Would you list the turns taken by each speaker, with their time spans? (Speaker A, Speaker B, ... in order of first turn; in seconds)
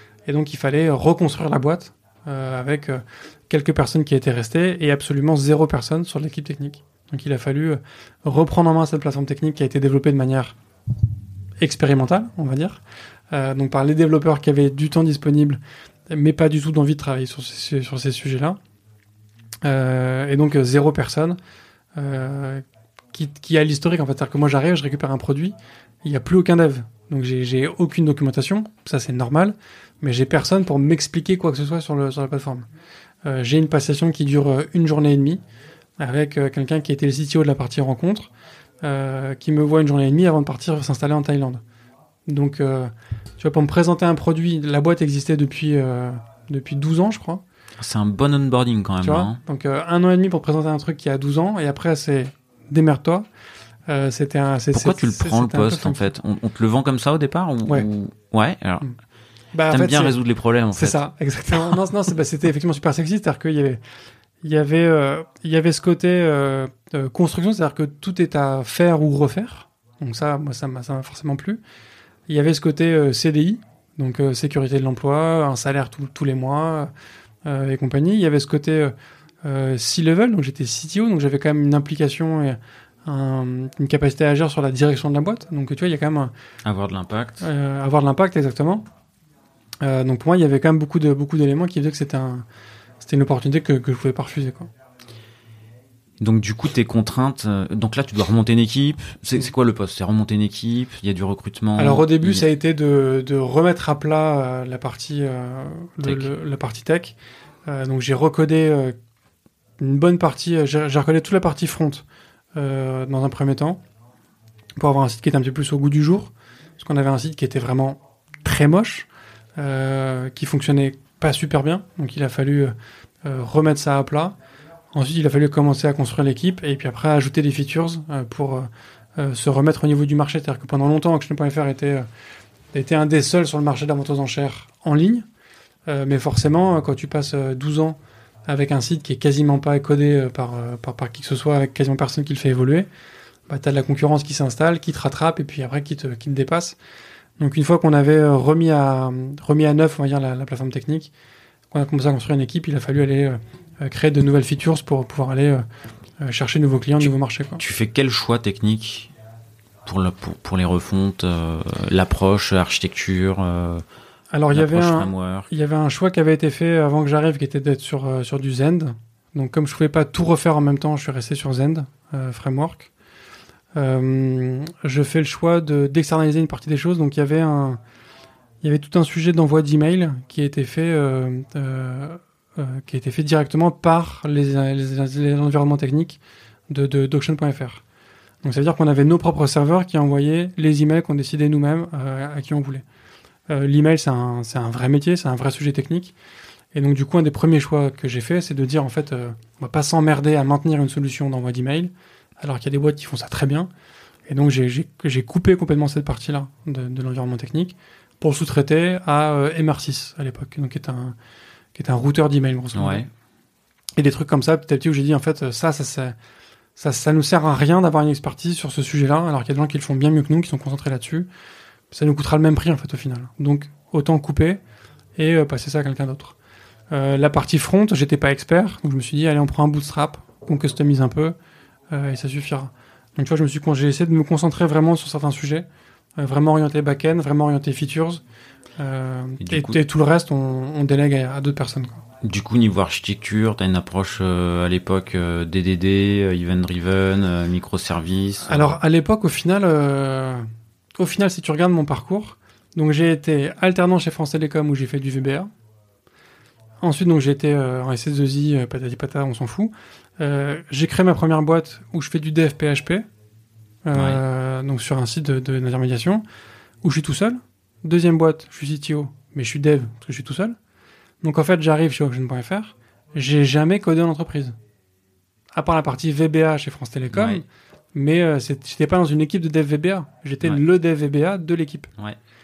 Speaker A: 0.3-10.6, 11.6-12.8, 13.3-15.6, 16.1-18.6, 19.6-21.4, 22.0-32.7, 33.2-35.4, 36.0-38.3, 38.8-41.6, 42.3-47.4, 49.0-53.2, 53.9-56.1, 59.5-60.1, 60.7-63.8, 64.4-71.6, 72.3-76.9, 77.4-78.9, 79.4-86.3, 87.4-88.8, 89.8-92.5, 93.0-94.7, 101.8-107.2, 107.7-109.0, 109.8-112.0, 112.5-113.8, 114.8-122.7, 123.2-124.3, 124.9-132.1, 132.7-135.2, 135.9-142.9, 143.5-146.8, 147.4-151.1, 151.7-155.6, 156.2-157.6, 164.3-172.9, 173.8-177.8, 178.6-186.2, 186.7-187.8, 188.4-192.8, 193.5-196.1, 196.7-203.7, 204.3-211.2, 211.7-213.1, 214.0-216.1, 216.8-221.3, 221.9-224.6, 225.2-226.3, 226.9-231.3, 231.9-235.7, 236.2-238.2, 238.8-242.0, 248.4-250.5, 251.0-255.5, 256.8-263.0, 263.8-266.2, 266.8-270.6, 271.2-274.5, 275.5-277.4, 277.9-281.9
Speaker B: 47.8-49.4, 54.7-58.9, 59.7-61.0, 86.6-87.4, 96.2-102.4, 106.0-106.3, 157.6-159.1, 159.8-163.8, 164.5-165.5, 212.7-213.1, 239.4-239.8, 242.2-248.8, 263.9-264.2, 277.1-277.4